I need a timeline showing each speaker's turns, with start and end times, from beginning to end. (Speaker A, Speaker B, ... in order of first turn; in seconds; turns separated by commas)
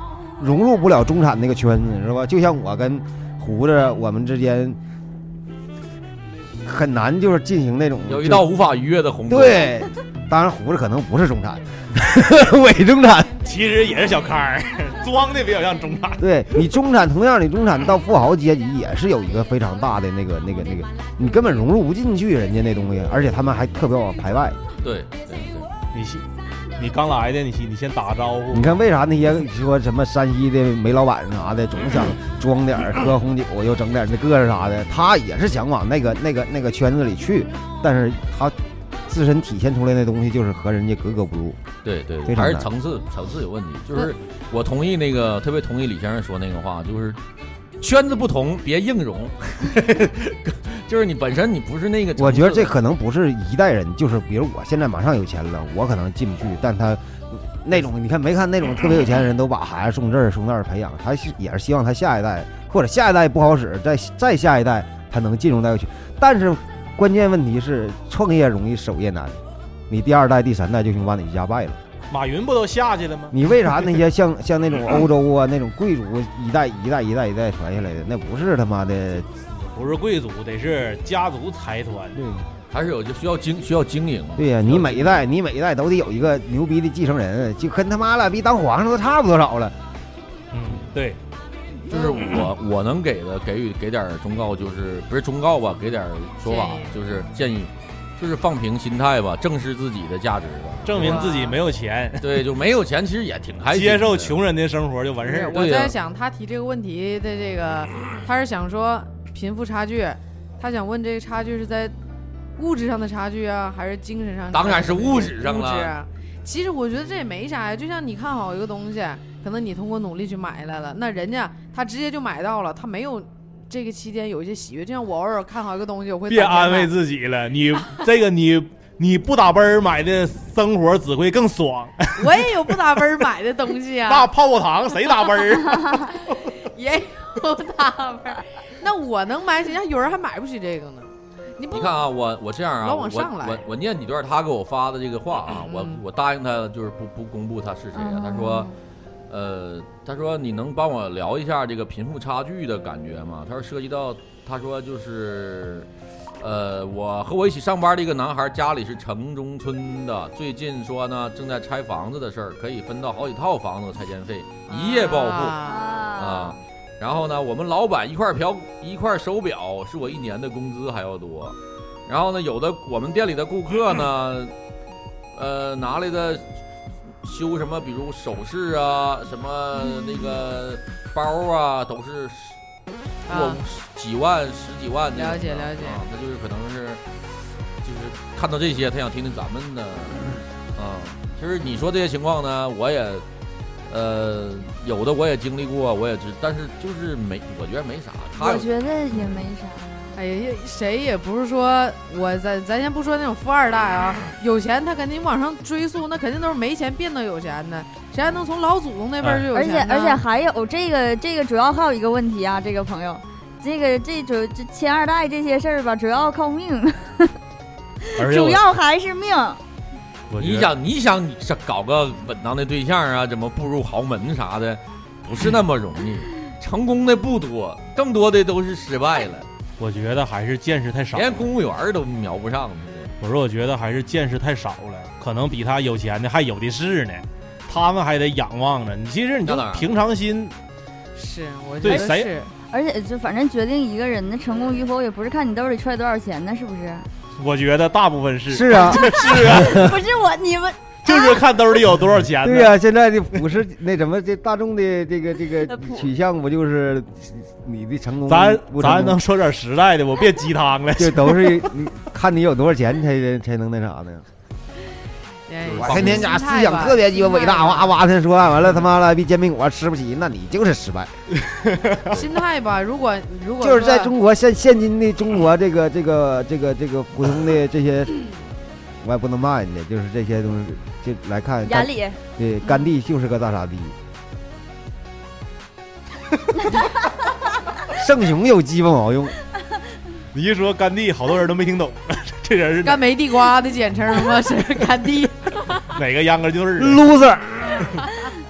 Speaker A: 0.4-4.8, Speaker A: 6.6-8.4, Speaker B: 8.1-9.7, Speaker A: 9.3-13.3, Speaker C: 13.4-16.2, Speaker A: 16.2-24.6, Speaker B: 24.8-25.7, Speaker C: 25.9-26.2, Speaker C: 26.8-28.7, Speaker A: 28.5-38.5, Speaker A: 39.1-41.6, Speaker B: 41.8-47.2, Speaker A: 42.2-42.7, Speaker B: 47.8-52.7, Speaker A: 52.2-71.8, Speaker C: 72.1-73.4, Speaker A: 73.3-79.3, Speaker C: 79.5-82.2, Speaker A: 82.1-82.4, Speaker B: 82.7-85.1, Speaker A: 84.4-89.8, Speaker C: 90.5-91.2, Speaker B: 91.9-101.3, Speaker D: 96.4-96.9, Speaker C: 100.8-102.5, Speaker D: 100.9-101.6, Speaker B: 102.2-104.4, Speaker C: 103.7-105.7, Speaker D: 105.2-111.9, Speaker B: 105.3-105.9, Speaker D: 112.6-126.9, Speaker B: 114.5-115.9, Speaker C: 126.3-132.7, Speaker D: 132.2-134.3, Speaker C: 134.1-136.5, Speaker D: 136.1-142.0, Speaker B: 141.7-148.7, Speaker D: 142.8-143.7, Speaker D: 145.6-146.0, Speaker E: 147.9-148.7, Speaker B: 149.3-155.9, Speaker B: 156.4-165.6, Speaker D: 164.7-166.1, Speaker E: 165.6-166.6, Speaker B: 166.2-171.6, Speaker B: 172.1-174.5, Speaker B: 175.3-176.4, Speaker B: 177.2-182.6, Speaker D: 183.3-183.6, Speaker B: 183.3-187.0, Speaker D: 185.1-186.0, Speaker B: 187.8-193.2, Speaker B: 193.9-199.4, Speaker E: 198.4-200.1, Speaker D: 200.2-210.2, Speaker C: 209.2-209.5, Speaker E: 209.5-217.3, Speaker E: 218.1-219.6, Speaker C: 218.2-218.7, Speaker C: 220.3-220.7, Speaker B: 220.4-229.5, Speaker C: 229.8-231.5, Speaker B: 231.1-233.1, Speaker C: 233.2-240.5, Speaker B: 239.4-239.9, Speaker D: 241.2-242.5, Speaker C: 241.8-242.3, Speaker E: 241.8-247.1, Speaker C: 247.4-249.8, Speaker A: 248.5-249.9, Speaker E: 248.8-251.4, Speaker C: 251.0-252.8, Speaker A: 252.4-259.2, Speaker E: 255.6-256.1, Speaker C: 258.3-261.7, Speaker A: 261.0-264.2, Speaker D: 265.5-267.9, Speaker B: 265.6-266.2, Speaker A: 265.8-271.1, Speaker C: 271.6-272.1, Speaker D: 272.1-274.1, Speaker A: 273.6-278.2, Speaker A: 278.9-283.9, Speaker E: 281.6-282.8, Speaker A: 287.9-289.3, Speaker C: 290.3-293.1, Speaker D: 292.8-295.9, Speaker C: 295.9-297.0, Speaker A: 296.8-297.9